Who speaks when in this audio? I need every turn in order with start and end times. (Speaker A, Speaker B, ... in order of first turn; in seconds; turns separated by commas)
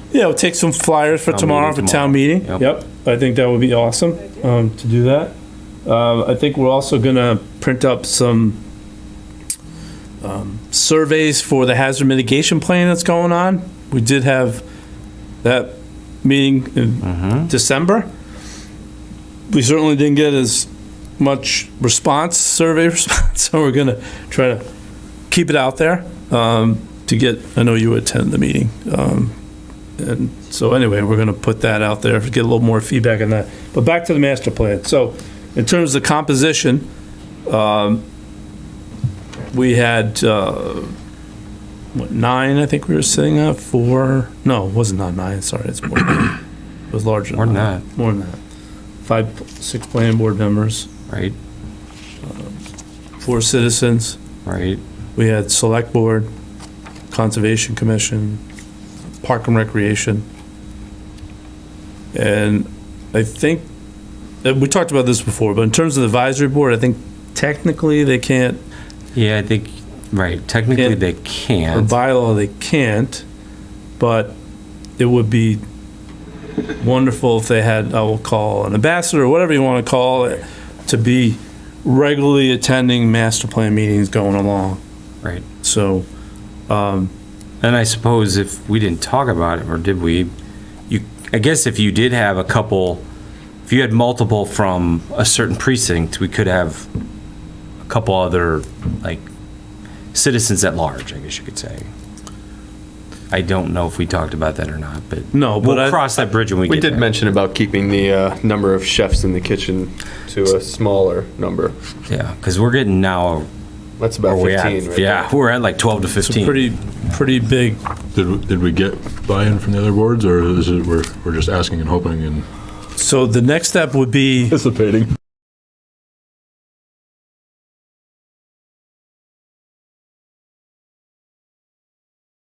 Speaker A: 0.1-5.3, Speaker B: 1.3-2.7, Speaker A: 5.8-8.6, Speaker A: 10.2-14.6, Speaker A: 15.4-18.1, Speaker B: 17.0-17.5, Speaker A: 19.5-24.6, Speaker A: 25.3-29.3, Speaker A: 30.0-36.9, Speaker A: 37.5-38.0, Speaker A: 39.5-40.9, Speaker A: 41.9-46.4, Speaker A: 46.9-48.4, Speaker B: 47.3-47.8, Speaker A: 49.0-50.9, Speaker B: 51.1-51.4, Speaker A: 52.3-52.5, Speaker A: 53.2-54.2, Speaker B: 54.5-54.8, Speaker A: 55.2-56.3, Speaker A: 57.1-58.4, Speaker A: 59.2-60.3, Speaker A: 62.1-63.7, Speaker A: 64.4-68.6, Speaker B: 69.1-71.9, Speaker A: 70.7-71.0, Speaker A: 71.7-73.2, Speaker A: 74.0-74.4, Speaker A: 75.0-75.6, Speaker A: 76.8-84.8, Speaker A: 85.6-86.0, Speaker A: 86.7-87.1, Speaker B: 87.6-90.3, Speaker B: 90.9-93.0, Speaker B: 93.7-96.9, Speaker B: 97.8-99.3, Speaker B: 100.1-101.9, Speaker B: 103.3-107.0, Speaker A: 105.3-106.0, Speaker C: 106.7-111.7, Speaker B: 112.1-113.5, Speaker C: 114.0-115.3, Speaker B: 114.2-116.7, Speaker A: 116.2-117.8, Speaker D: 118.1-122.4, Speaker A: 123.0-124.6